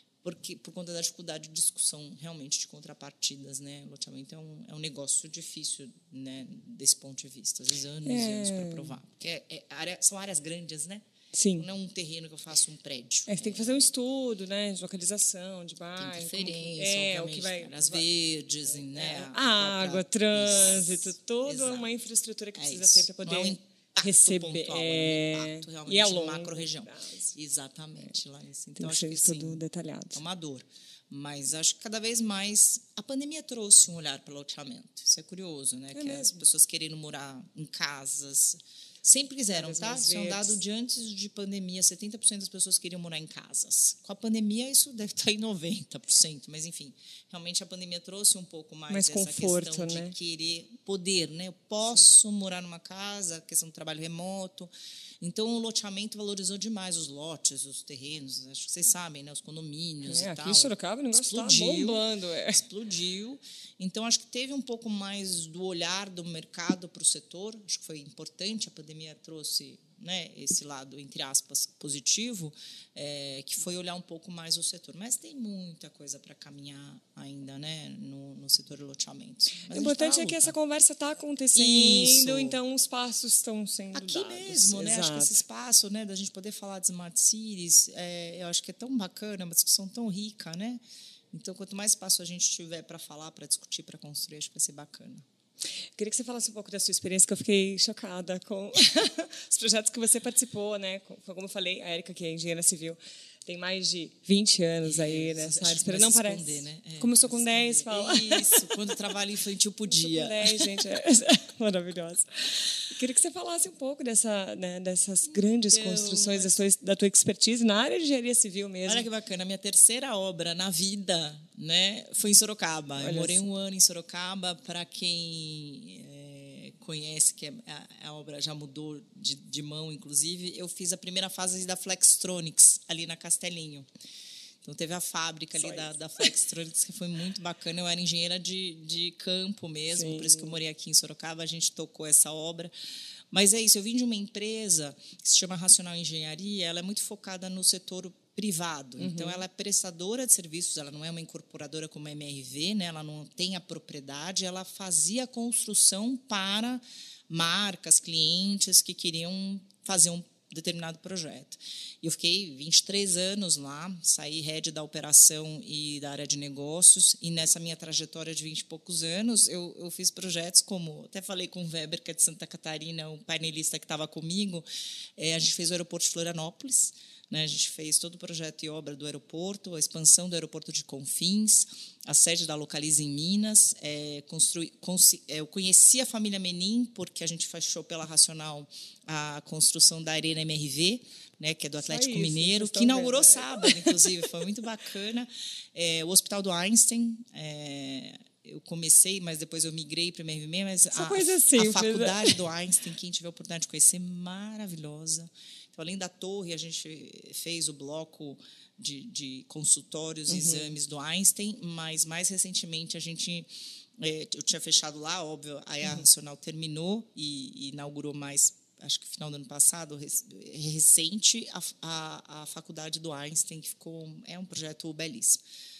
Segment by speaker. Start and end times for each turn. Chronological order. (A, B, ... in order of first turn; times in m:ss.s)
0:00.2-0:11.0 A
0:08.0-0:09.0 B
0:11.3-0:11.7 B
0:11.6-0:13.7 A
0:13.3-0:18.0 B
0:16.0-0:21.9 A
0:18.9-0:27.3 B
0:22.5-0:29.6 A
0:28.8-0:30.2 B
0:30.1-1:20.5 A
0:35.9-0:36.4 B
0:39.5-0:40.6 B
0:48.9-0:50.1 B
1:00.0-1:02.6 B
1:19.6-1:25.4 B
1:21.5-1:22.6 A
1:23.9-1:35.2 A
1:36.0-1:48.7 B
1:44.8-1:50.7 A
1:49.9-1:59.1 B
1:55.3-1:56.6 A
1:58.8-2:13.9 A
2:03.0-2:03.4 B
2:14.6-2:22.7 A
2:15.5-2:16.0 B
2:19.9-2:20.6 B
2:23.3-2:54.6 A
2:29.0-2:29.4 B
2:55.2-3:33.5 A
3:11.8-3:14.1 B
3:20.9-3:22.4 B
3:30.3-3:30.7 B
3:34.0-3:45.4 A